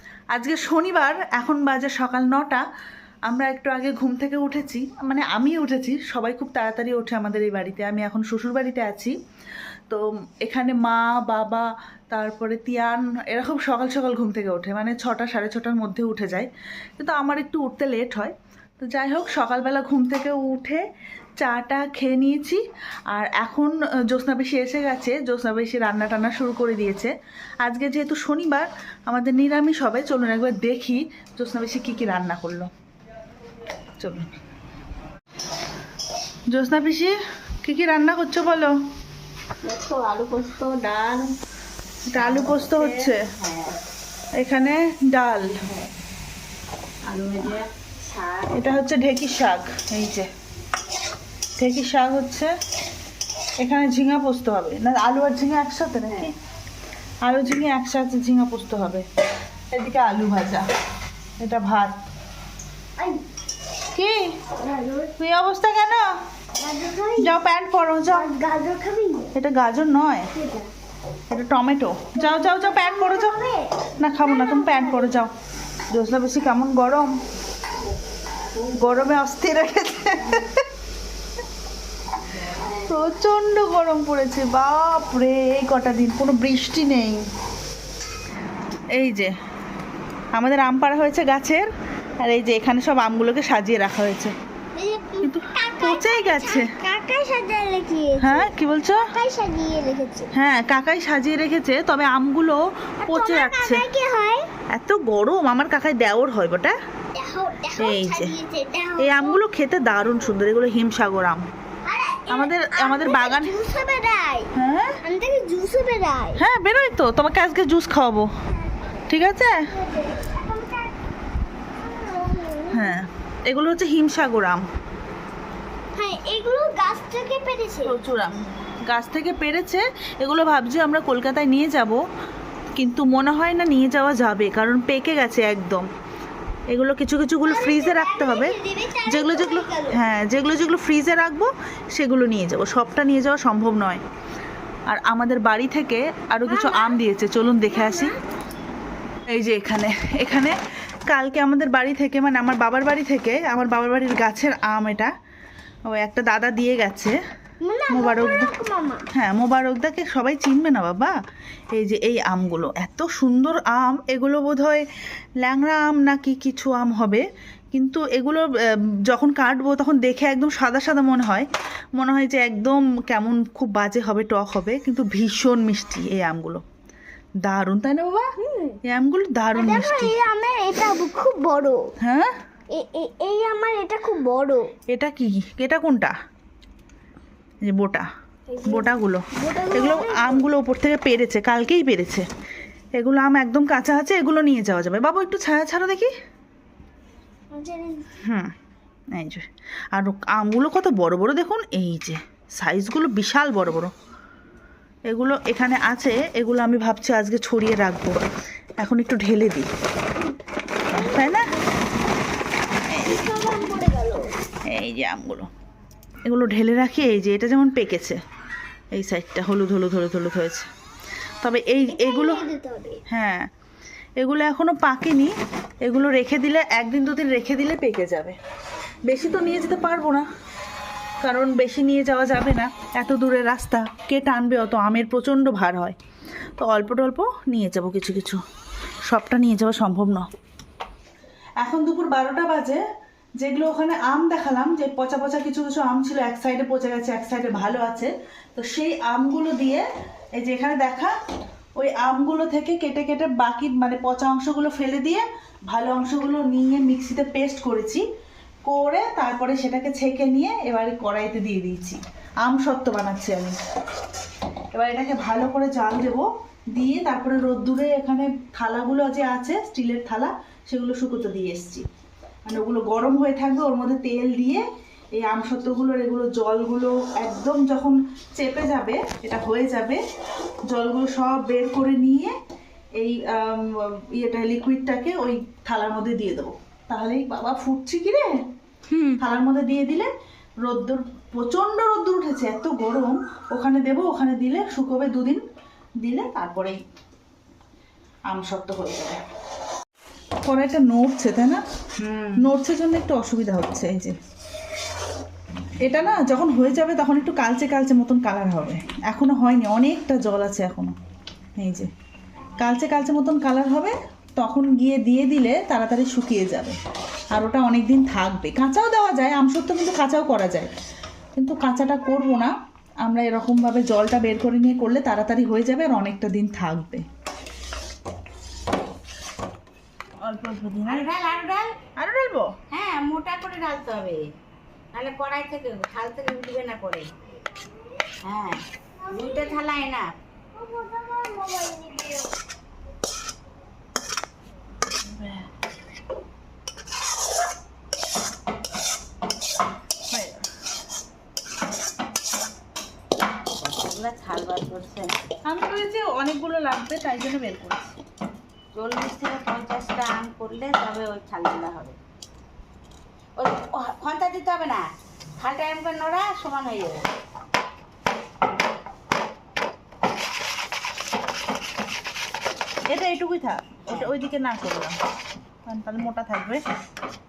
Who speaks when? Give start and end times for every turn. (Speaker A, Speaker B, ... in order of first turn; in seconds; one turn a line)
Speaker A: 0.3-2.6
Speaker A: 3.3-9.1
Speaker A: 9.9-16.5
Speaker A: 17.0-20.8
Speaker A: 21.4-27.1
Speaker A: 27.6-32.7
Speaker A: 34.0-34.3
Speaker A: 36.5-38.8
Speaker B: 39.6-41.3
Speaker A: 42.1-43.2
Speaker B: 42.2-43.8
Speaker A: 44.4-45.6
Speaker B: 47.0-48.8
Speaker A: 48.5-50.3
Speaker A: 51.6-52.5
Speaker A: 53.6-56.4
Speaker A: 57.2-59.0
Speaker A: 59.7-60.7
Speaker A: 61.4-62.0
Speaker A: 64.0-64.3
Speaker C: 64.5-65.2
Speaker A: 65.2-66.1
Speaker C: 66.6-67.4
Speaker A: 67.2-68.2
Speaker C: 68.1-69.3
Speaker A: 69.3-70.3
Speaker C: 70.3-70.7
Speaker A: 71.3-73.3
Speaker C: 72.1-75.2
Speaker A: 74.0-75.3
Speaker A: 75.9-77.1
Speaker A: 78.7-80.6
Speaker A: 82.6-87.2
Speaker A: 88.9-89.3
Speaker A: 90.3-91.7
Speaker A: 92.2-94.3
Speaker C: 94.7-100.3
Speaker A: 95.2-96.7
Speaker A: 98.2-99.0
Speaker A: 100.3-103.8
Speaker C: 103.0-104.5
Speaker A: 104.7-106.8
Speaker C: 107.1-109.4
Speaker A: 107.8-108.3
Speaker A: 109.0-111.4
Speaker C: 111.8-114.5
Speaker A: 112.3-113.5
Speaker A: 114.5-115.0
Speaker C: 115.0-116.4
Speaker A: 116.4-118.3
Speaker A: 119.1-119.7
Speaker C: 119.6-121.0
Speaker C: 121.8-123.0
Speaker A: 122.7-124.6
Speaker C: 126.0-128.0
Speaker A: 127.8-132.0
Speaker A: 132.8-135.9
Speaker A: 136.7-144.0
Speaker C: 137.4-140.0
Speaker A: 144.9-148.1
Speaker C: 146.5-147.0
Speaker C: 147.7-148.2
Speaker A: 149.3-150.6
Speaker A: 151.1-155.1
Speaker A: 155.9-157.2
Speaker C: 157.6-159.1
Speaker A: 157.9-158.5
Speaker A: 159.2-161.1
Speaker A: 161.7-164.8
Speaker A: 165.4-168.5
Speaker A: 169.1-176.6
Speaker A: 177.4-178.3
Speaker C: 178.4-178.8
Speaker A: 178.9-180.2
Speaker C: 179.5-181.8
Speaker A: 182.0-182.3
Speaker C: 182.8-184.7
Speaker A: 184.9-186.1
Speaker A: 187.6-188.1
Speaker C: 188.5-190.5
Speaker A: 188.6-192.2
Speaker A: 192.9-196.1
Speaker C: 197.5-198.2
Speaker A: 198.2-198.5
Speaker A: 199.1-203.9
Speaker A: 205.1-208.2
Speaker A: 208.8-209.7
Speaker C: 210.9-211.7
Speaker A: 210.9-211.5
Speaker C: 212.9-214.3
Speaker A: 214.7-215.5
Speaker A: 216.2-218.2
Speaker A: 218.9-220.7
Speaker A: 221.4-222.5
Speaker C: 221.9-223.0
Speaker A: 223.1-223.5
Speaker A: 224.2-228.4
Speaker A: 229.1-230.2
Speaker A: 231.2-236.0
Speaker A: 236.6-238.4
Speaker A: 239.1-240.3
Speaker A: 241.6-242.8
Speaker A: 243.4-249.8
Speaker A: 250.4-251.1
Speaker A: 251.8-258.1
Speaker A: 258.6-263.6
Speaker A: 264.7-271.9
Speaker A: 272.4-274.6
Speaker A: 275.2-280.0
Speaker A: 280.7-282.3
Speaker A: 283.0-288.3
Speaker A: 289.1-290.1
Speaker A: 290.6-295.4
Speaker A: 296.0-296.8
Speaker A: 298.3-299.2
Speaker A: 300.4-301.6
Speaker B: 302.0-302.4
Speaker A: 302.4-304.2
Speaker A: 305.8-310.9
Speaker A: 311.6-311.9
Speaker A: 312.6-316.8
Speaker A: 317.3-320.7
Speaker A: 321.4-327.1
Speaker A: 330.2-331.1
Speaker B: 330.9-331.7
Speaker A: 332.0-332.5
Speaker B: 332.7-334.2
Speaker B: 334.9-337.1
Speaker B: 338.2-340.1
Speaker C: 339.0-339.7
Speaker C: 340.5-342.4
Speaker A: 345.0-345.5
Speaker A: 350.1-350.4
Speaker B: 353.6-355.1
Speaker A: 355.4-358.0
Speaker B: 358.8-361.9
Speaker B: 363.4-367.1
Speaker A: 372.9-375.0
Speaker A: 375.7-376.6